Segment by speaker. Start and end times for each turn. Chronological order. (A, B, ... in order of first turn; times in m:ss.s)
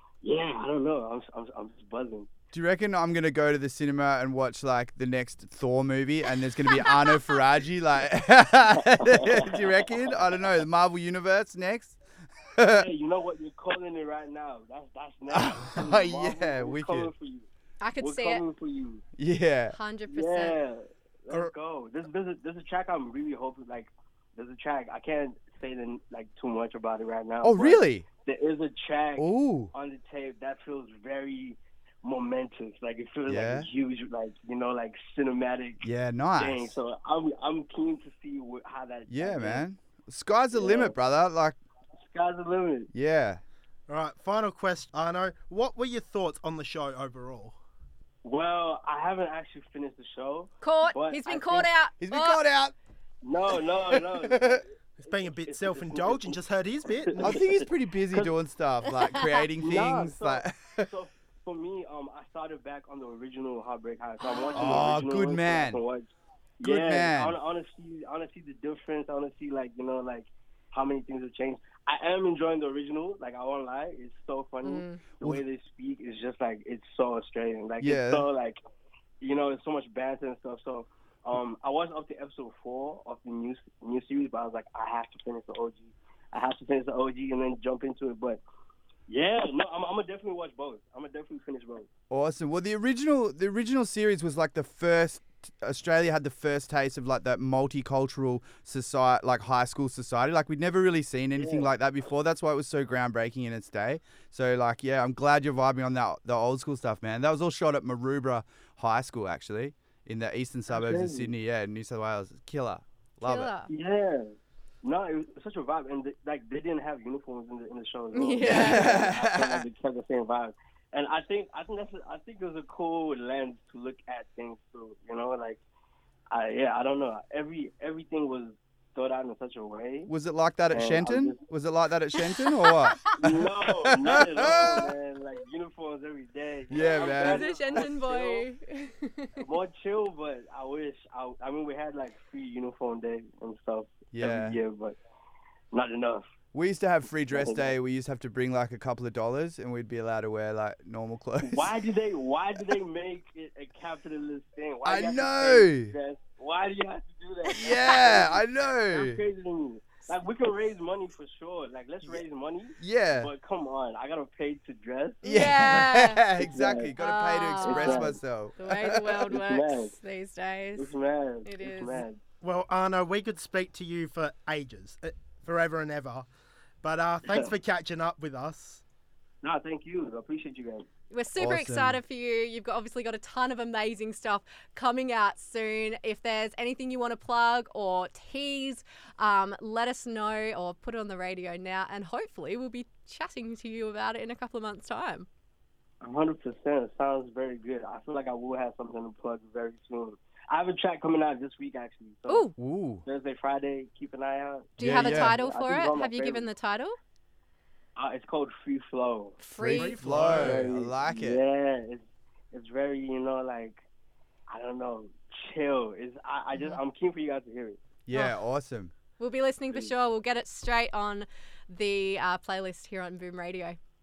0:00.2-0:02.3 A
0:02.5-0:12.0 B
0:12.6-0:12.9 B
0:12.7-0:17.5 A
0:15.3-0:17.1 B
0:17.8-0:18.4 C
0:18.0-0:19.0 A
0:19.2-0:19.8 B
0:19.7-0:20.6 C
0:20.1-0:35.8 A
0:27.4-0:28.1 B
0:29.2-0:29.7 B
0:33.3-0:33.7 B
0:35.8-0:36.7 B
0:36.4-0:39.6 A
0:39.1-0:41.6 B
0:40.5-0:41.0 A
0:42.0-0:42.9 A
0:42.9-0:43.4 B
0:43.9-0:47.6 D
0:48.2-0:51.7 A
0:50.6-0:52.4 C
0:52.0-0:52.8 B
0:53.2-0:56.4 A
0:53.9-0:54.6 B
0:55.0-0:57.3 D
0:57.0-0:58.3 A
0:57.2-1:00.9 B
0:59.0-0:59.4 C
0:59.6-1:06.1 A
1:04.4-1:04.8 C
1:04.6-1:05.8 B
1:06.6-1:18.6 A
1:06.6-1:07.4 B
1:14.6-1:15.0 C
1:17.8-1:18.3 B
1:19.2-1:28.4 A
1:29.1-1:31.9 A
1:32.1-1:53.5 B
1:41.4-1:41.7 A
1:50.7-1:51.3 A
1:53.2-1:53.7 C
1:53.7-1:54.3 A
1:54.8-2:05.6 A
1:58.1-1:59.1 C
1:58.4-1:59.6 B
2:06.3-2:10.1 A
2:10.1-2:14.9 B
2:10.7-2:11.4 A
2:13.2-2:18.5 A
2:16.7-2:17.5 B
2:17.0-2:19.4 C
2:19.4-2:25.0 A
2:24.1-2:24.6 B
2:25.7-2:26.3 A
2:26.5-2:31.7 B
2:27.3-2:27.7 A
2:31.5-2:45.8 A
2:34.8-2:35.9 B
2:37.5-2:38.2 C
2:37.6-2:39.2 B
2:42.8-2:43.3 B
2:45.2-2:49.3 B
2:45.3-2:46.3 C
2:46.4-2:46.9 A
2:47.0-2:52.0 C
2:47.6-2:48.2 A
2:49.3-2:49.9 A
2:50.8-2:52.2 A
2:52.4-2:56.3 D
2:56.8-2:58.8 D
2:59.4-3:00.9 A
3:01.1-3:15.3 C
3:01.4-3:02.0 B
3:16.0-3:22.5 A
3:22.3-3:22.5 C
3:22.6-3:23.0 B
3:23.0-3:26.5 A
3:24.8-3:27.0 C
3:24.8-3:25.4 B
3:28.0-3:29.4 A
3:29.4-3:30.4 C
3:29.6-3:31.4 B
3:29.7-3:30.7 D
3:30.3-3:33.8 A
3:34.5-3:37.8 A
3:36.5-3:36.8 C
3:38.1-3:38.9 B
3:38.1-3:38.4 C
3:39.2-3:43.8 C